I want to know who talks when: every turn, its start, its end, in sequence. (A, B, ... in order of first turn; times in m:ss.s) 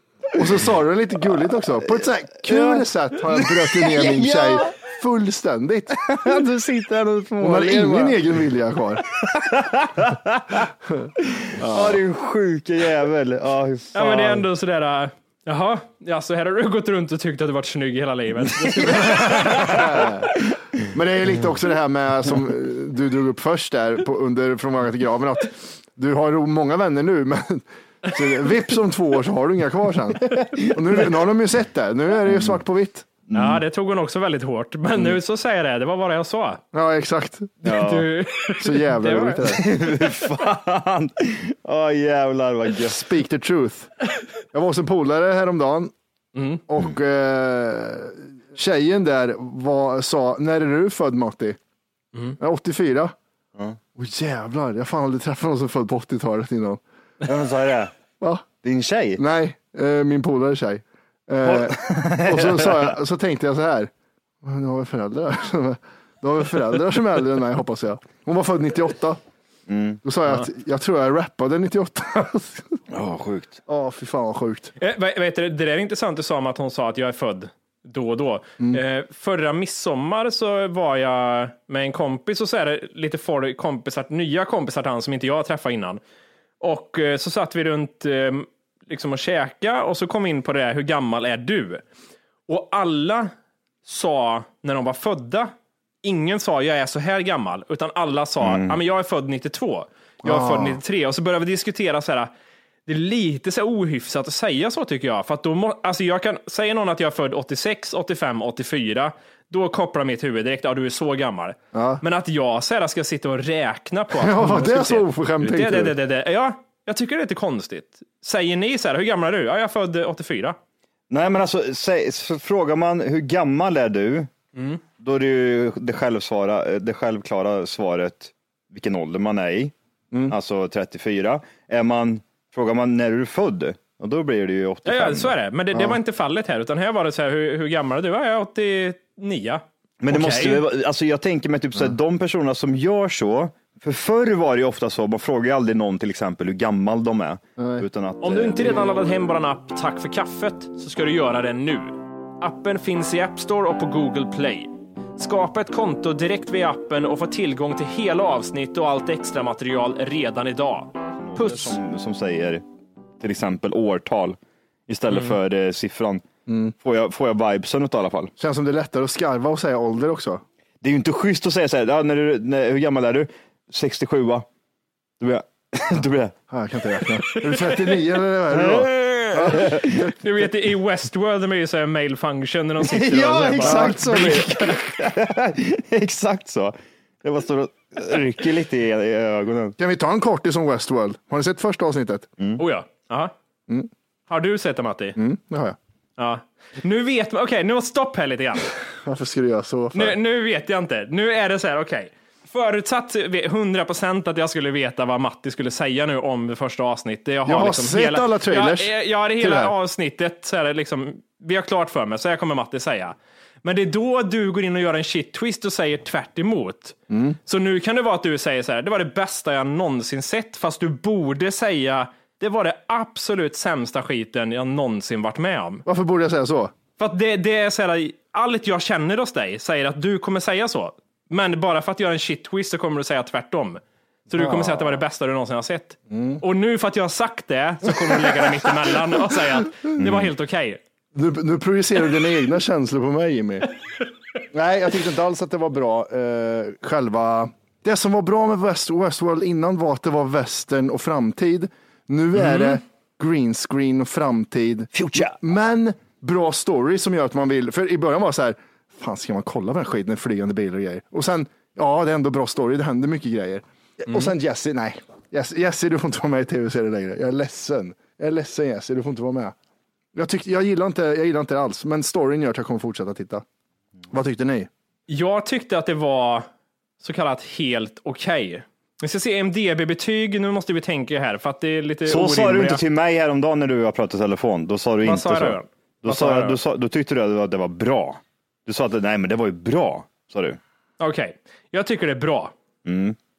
0:00.3-0:06.0 A
0:02.5-0:04.8 B
0:06.0-0:08.2 B
0:07.4-0:09.0 A
0:09.1-0:14.4 B
0:10.9-0:12.0 A
0:13.9-0:20.1 C
0:18.6-0:20.1 B
0:19.0-0:20.3 A
0:20.8-0:33.1 A
0:30.4-0:31.0 B
0:32.3-0:32.5 B
0:33.3-0:33.6 B
0:33.3-0:36.6 C
0:36.7-0:37.6 A
0:37.6-0:38.1 B
0:37.6-0:39.5 C
0:38.6-0:39.6 A
0:39.4-0:43.0 B
0:42.8-0:43.9 A
0:44.5-0:45.9 A
0:46.3-0:46.6 C
0:46.7-0:51.6 A
0:52.4-0:53.1 A
0:54.0-0:56.8 A
0:57.2-0:57.9 B
0:58.2-0:58.4 A
0:58.6-0:59.2 B
0:59.2-1:03.9 A
1:01.4-1:02.9 B
1:04.4-1:09.2 A
1:09.7-1:10.0 B
1:10.0-1:12.8 A
1:12.9-1:13.6 B
1:13.7-1:14.7 A
1:14.8-1:26.0 C
1:26.6-1:31.8 C
1:32.5-1:33.3 C
1:33.8-1:42.3 C
1:38.4-1:38.8 B
1:40.2-1:40.8 A
1:42.9-2:00.6 C
1:51.7-1:52.0 A
1:54.1-1:56.0 A
2:01.1-2:04.3 B
2:04.5-2:04.8 C
2:05.0-2:09.7 B
2:10.3-2:15.3 B
2:14.8-2:20.7 C
2:15.7-2:16.0 A
2:20.0-2:28.8 B
2:27.6-2:27.8 A
2:28.2-2:41.8 C
2:41.2-2:42.6 B
2:43.2-2:46.2 B
2:45.1-2:45.4 C
2:46.5-2:46.7 A
2:46.8-2:48.3 B
2:48.4-2:50.4 A
2:50.8-2:54.4 B
2:55.2-2:56.4 B
2:56.5-3:00.1 A
2:58.5-3:00.1 B
3:00.2-3:04.5 C
3:02.8-3:09.8 B
3:03.6-3:04.5 A
3:09.8-3:12.3 A
3:12.6-3:13.3 C
3:14.3-3:15.2 C
3:15.2-3:15.8 A
3:16.2-3:18.7 C
3:19.0-3:20.2 A
3:19.9-3:37.0 C
3:27.4-3:29.7 A
3:37.1-3:37.4 A
3:37.5-3:45.8 C
3:45.8-3:46.7 A
3:47.0-4:00.8 C
3:54.3-3:55.0 A
3:56.1-3:56.4 A
4:00.0-4:00.3 B
4:01.1-4:03.7 A
4:04.5-4:29.5 A
4:12.5-4:12.8 C
4:14.9-4:15.4 B
4:30.1-4:33.4 A
4:34.1-4:34.7 A
4:35.1-4:36.4 C
4:37.0-4:42.8 C
4:42.1-4:50.6 B
4:45.0-4:46.6 C
4:51.0-4:52.5 C
4:52.8-4:53.2 B